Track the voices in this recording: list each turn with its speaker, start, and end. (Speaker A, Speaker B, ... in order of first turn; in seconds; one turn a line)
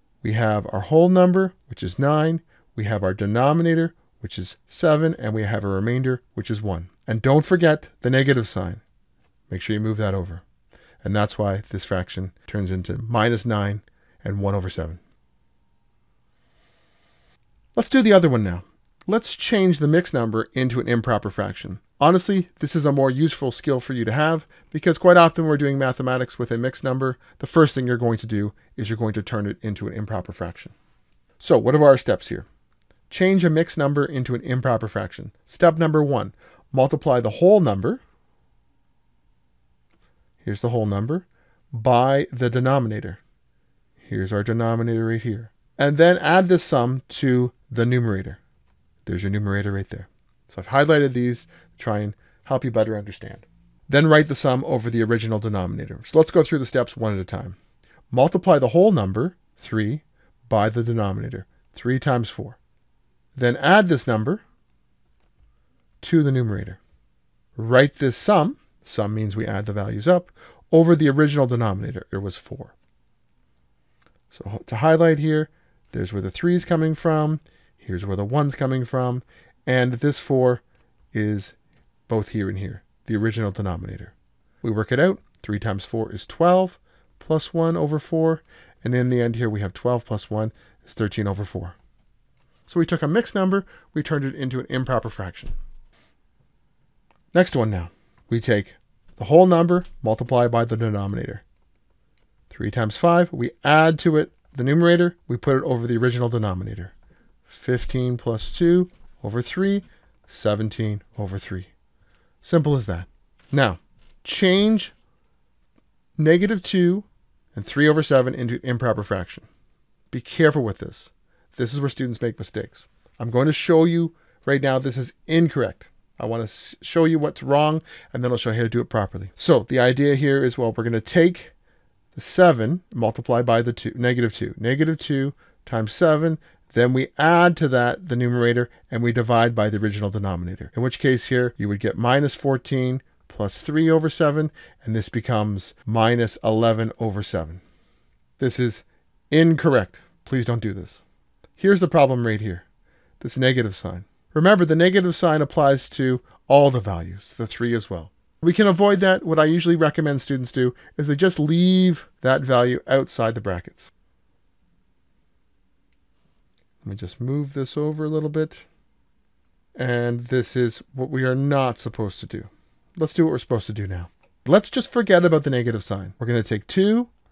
Speaker A: 0.2-8.8
Speaker A: 9.5-10.4
Speaker A: 11.0-15.0
Speaker A: 17.8-30.7
Speaker A: 31.4-32.5
Speaker A: 33.1-38.0
Speaker A: 40.4-43.2
Speaker A: 44.0-48.4
Speaker A: 49.1-57.6
Speaker A: 58.1-62.6
Speaker A: 63.4-64.4
Speaker A: 66.0-66.8
Speaker A: 67.6-72.7
Speaker A: 74.3-81.6
Speaker A: 82.1-91.8
Speaker A: 92.7-95.5
Speaker A: 97.3-101.4
Speaker A: 102.5-106.9
Speaker A: 107.5-111.7
Speaker A: 112.4-114.9
Speaker A: 116.2-119.5
Speaker A: 120.1-131.5
Speaker A: 132.1-147.6
Speaker A: 148.4-151.0
Speaker A: 151.6-152.7
Speaker A: 153.2-163.9
Speaker A: 166.8-168.7
Speaker A: 169.8-177.1